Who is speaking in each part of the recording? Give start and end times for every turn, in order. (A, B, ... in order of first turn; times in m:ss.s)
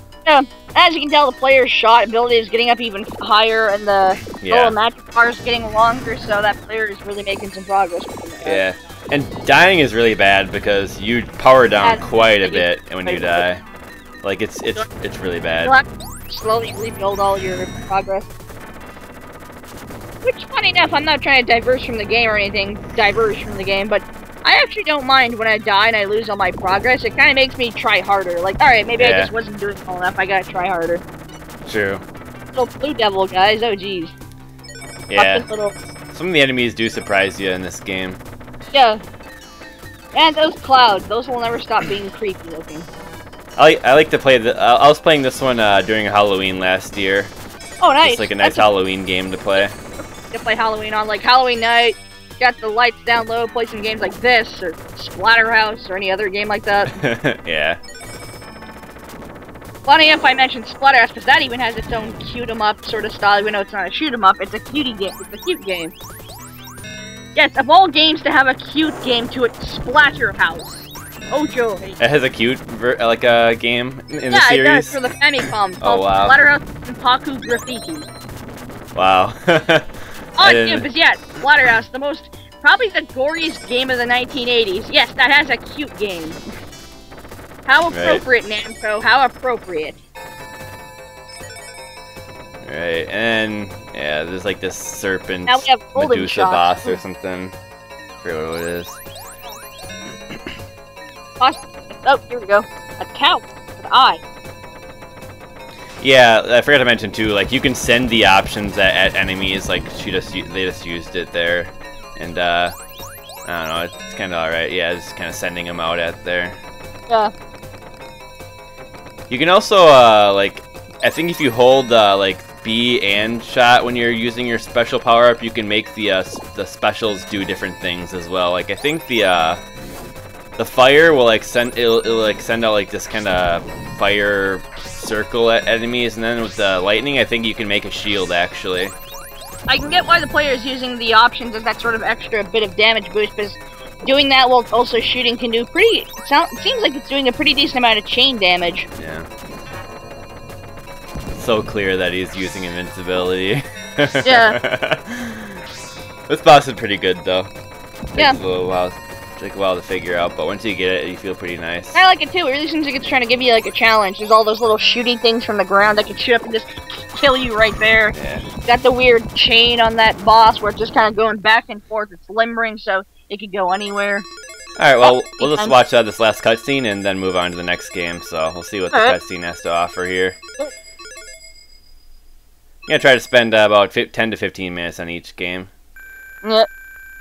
0:00.2-0:08.6 A
0:04.4-0:04.8 B
0:08.4-0:13.6 B
0:11.8-0:13.4 A
0:14.2-0:15.7 B
0:15.6-0:18.3 A
0:20.2-0:31.0 A
0:29.0-0:29.3 B
0:31.6-0:32.0 B
0:32.5-0:34.1 A
0:35.1-0:35.4 B
0:35.2-0:35.7 A
0:36.1-0:38.2 B
0:38.7-0:39.0 A
0:40.1-0:42.9 A
0:43.6-0:47.3 B
0:47.8-0:48.7 A
0:48.0-0:49.7 B
0:50.3-0:56.9 A
0:56.9-0:57.8 B
0:59.8-1:05.9 A
1:07.3-1:12.0 A
1:12.0-1:15.0 B
1:14.3-1:18.1 A
1:15.8-1:16.4 B
1:18.9-1:20.9 B
1:20.4-1:26.4 A
1:27.6-1:30.0 A
1:27.9-1:28.2 B
1:32.6-1:37.5 B
1:35.5-1:37.0 A
1:38.2-1:39.0 B
1:41.4-1:44.2 A
1:46.0-1:52.7 B
1:53.4-1:56.6 B
1:59.3-2:09.6 B
2:10.6-2:18.9 B
2:19.7-2:28.9 A
2:29.0-2:29.3 B
2:31.3-2:35.6 B
2:34.2-2:34.6 A
2:36.3-2:37.5 B
2:38.1-2:42.0 B
2:41.9-2:54.2 A
2:48.1-2:48.5 B
2:54.8-3:00.4 B
2:55.0-2:55.7 A
3:02.8-3:05.7 B